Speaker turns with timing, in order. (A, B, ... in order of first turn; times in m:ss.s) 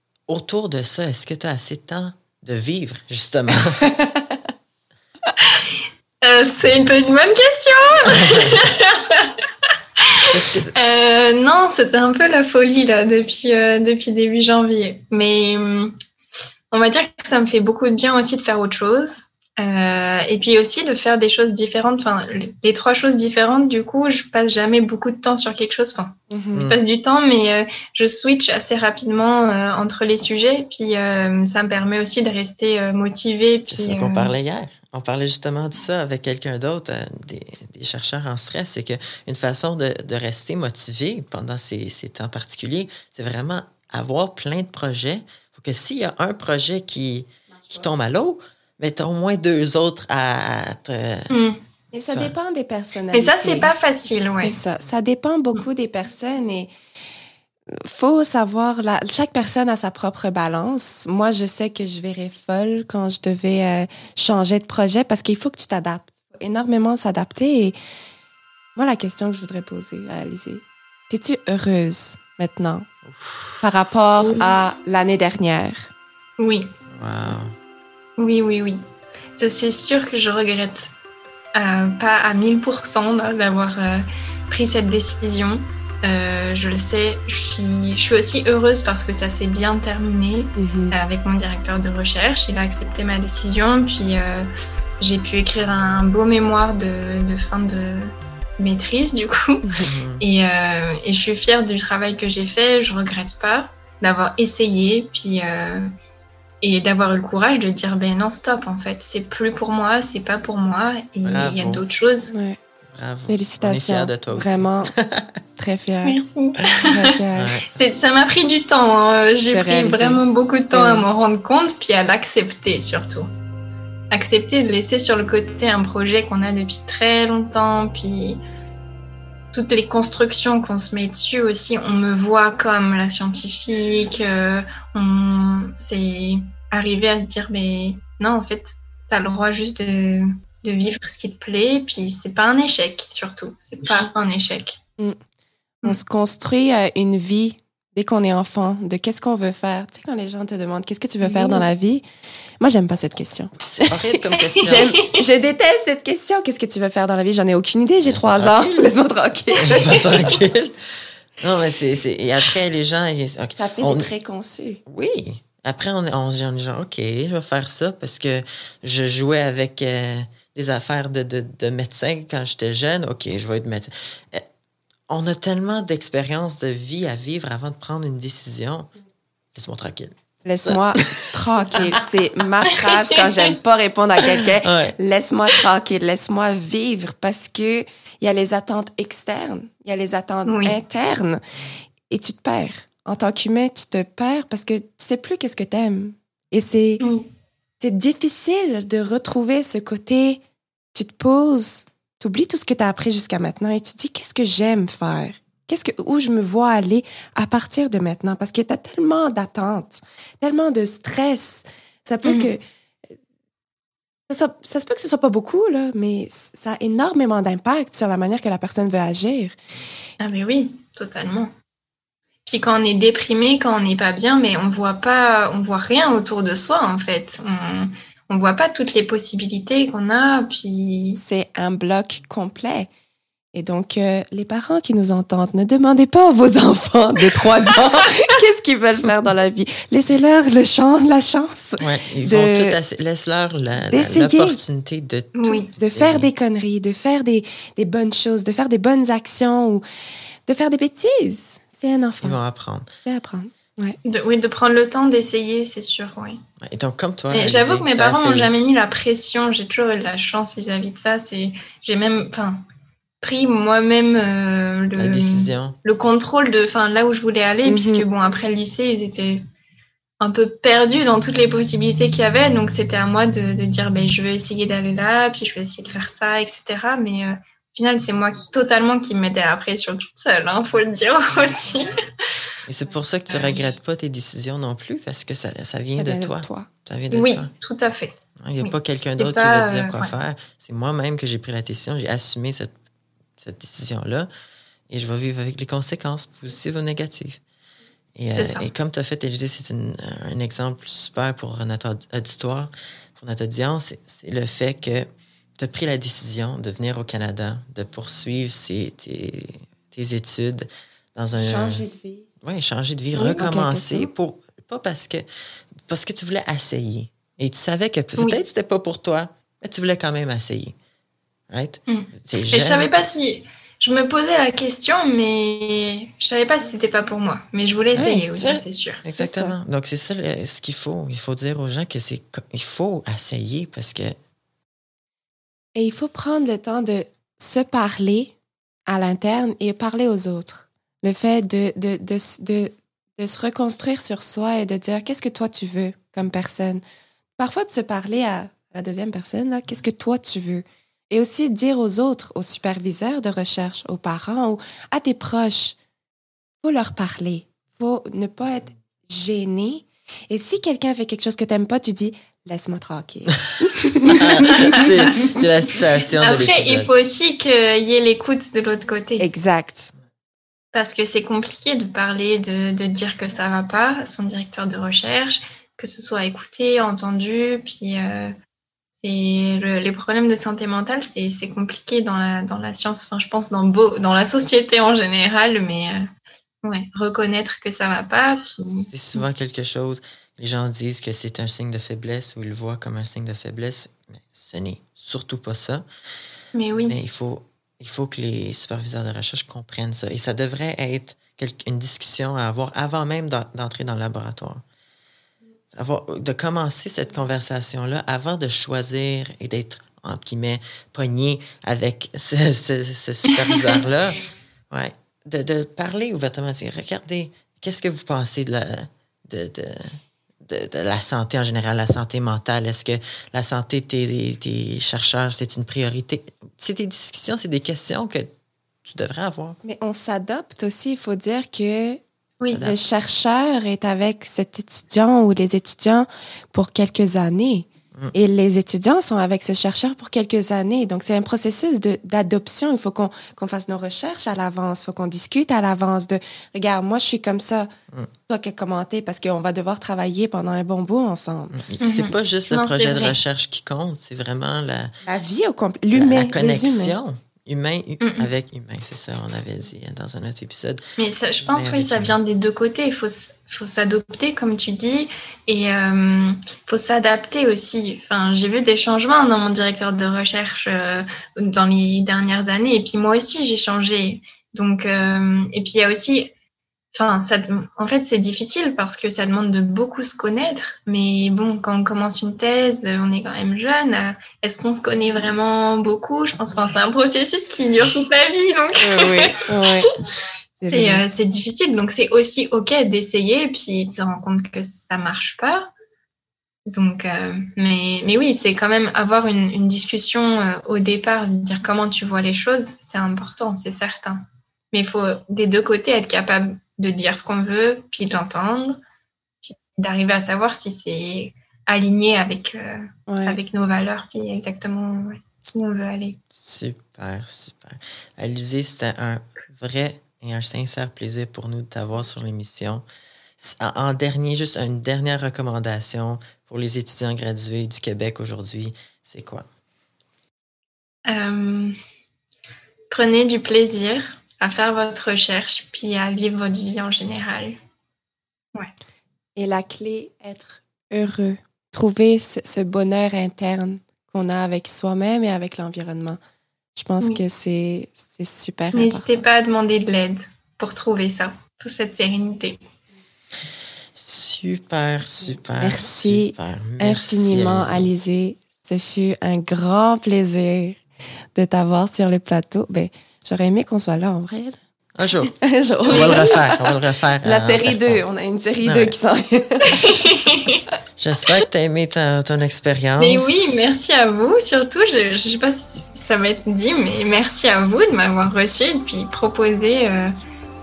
0:00.3-0:03.9 A
0:05.4-0:09.4 B
0:08.1-0:08.6 A
0:10.1-0:15.9 B
0:10.3-0:10.7 A
0:16.7-0:34.3 B
0:26.3-0:26.6 C
0:26.5-0:26.8 A
0:33.7-0:51.3 A
0:51.3-0:51.6 B
0:51.9-0:53.7 C
0:53.1-0:54.6 B
0:54.4-0:56.7 C
0:57.7-1:07.8 C
1:08.8-1:12.9 C
1:13.1-1:13.7 A
1:13.6-1:15.9 C
1:16.4-1:16.7 B
1:16.9-1:17.6 A
1:18.2-1:18.8 B
1:19.4-1:20.9 B
1:21.6-1:34.5 B
1:30.6-1:31.0 C
1:35.0-1:45.9 B
1:39.8-1:40.2 A
1:46.6-1:52.3 B
1:51.2-1:51.8 A
1:52.3-1:52.6 C
1:52.9-1:55.3 A
1:53.3-1:55.0 C
1:55.6-1:56.2 C
1:56.0-1:57.2 B
1:56.6-1:57.7 A
1:56.9-1:57.6 C
1:57.7-2:03.3 B
1:59.5-2:01.1 C
2:04.1-2:08.4 B
2:09.5-2:24.8 B
2:25.8-2:32.0 C
2:31.2-2:31.7 B
2:32.6-2:40.2 C
2:33.6-2:34.9 A
2:34.6-2:35.2 B
2:38.0-2:38.7 A
2:39.6-2:40.8 A
2:41.4-2:44.1 A
2:43.6-2:44.8 C
2:44.9-2:54.5 A
2:55.1-2:58.9 A
2:59.5-3:01.9 A
3:00.4-3:11.4 C
3:03.0-3:03.5 B
3:04.2-3:05.0 A
3:10.5-3:10.8 B
3:12.1-3:17.0 C
3:17.0-3:17.3 B
3:17.8-3:20.4 C
3:20.9-3:32.6 C
3:32.2-3:32.5 B
3:34.3-3:39.6 C
3:40.2-3:41.5 B
3:42.5-3:51.2 B
3:51.2-3:52.9 C
3:53.5-4:02.8 C
4:01.8-4:06.3 A
4:03.9-4:04.6 C
4:05.4-4:05.7 B
4:05.8-4:09.8 C
4:10.5-4:12.4 C
4:12.2-4:12.9 A
4:13.0-4:14.0 C
4:14.0-4:16.4 B
4:16.6-4:18.5 A
4:17.3-4:22.6 B
4:23.2-4:29.4 B
4:25.0-4:25.8 A
4:27.6-4:28.1 C
4:30.2-4:41.9 B
4:42.6-4:47.5 A
4:43.3-4:43.8 B
4:46.0-4:46.7 C
4:47.1-4:50.1 B
4:48.4-4:52.8 A
4:53.4-4:54.3 A
4:54.9-4:57.4 A
4:58.2-5:11.8 A
4:58.4-4:58.7 B
5:11.4-5:12.3 C
5:12.4-5:15.3 A
5:13.2-5:14.1 C
5:15.9-5:20.8 A
5:21.5-5:23.0 A
5:21.9-5:29.0 B
5:28.0-5:28.3 C
5:28.0-5:34.2 A
5:29.2-5:29.6 C
5:35.8-5:38.3 C
5:38.9-5:46.8 C
5:47.4-5:55.8 C
5:56.6-6:04.9 C
6:04.1-6:06.9 A
6:04.5-6:05.3 B
6:06.2-6:09.3 B
6:09.2-6:09.9 C
6:10.7-6:18.4 B
6:19.0-6:26.1 B
6:26.6-6:28.9 B
6:28.9-6:35.8 A
6:36.5-6:37.0 B
6:36.9-6:44.6 A
6:45.7-7:08.3 A
6:53.4-6:53.8 B
7:08.8-7:09.6 A
7:09.6-7:12.0 C
7:12.4-7:12.7 B
7:12.5-7:12.8 A
7:12.6-7:27.7 C
7:28.3-7:31.6 C
7:31.5-7:35.0 A
7:31.8-7:33.2 B
7:35.0-7:37.0 C
7:35.9-7:40.8 A
7:38.0-7:38.3 B
7:41.0-7:56.3 B
7:41.4-7:42.2 A
7:56.9-8:09.5 B
8:08.8-8:09.9 C
8:10.6-8:15.7 B
8:10.6-8:11.0 C
8:16.7-8:24.2 B
8:24.7-8:28.8 B
8:29.4-8:36.2 B
8:33.1-8:33.4 C
8:36.3-8:42.8 A
8:43.4-8:49.5 A
8:51.1-8:51.8 B
8:52.9-8:57.6 B
8:59.4-9:06.2 C
9:06.8-9:09.2 C
9:08.7-9:12.6 B
9:14.0-9:17.9 A
9:15.6-9:20.8 C
9:21.4-9:24.6 C
9:25.0-9:28.0 A
9:25.3-9:26.7 C
9:25.9-9:26.3 B
9:27.2-9:29.9 C
9:28.6-9:28.9 A
9:29.7-9:30.6 B
9:31.0-9:33.6 A
9:33.0-9:40.2 B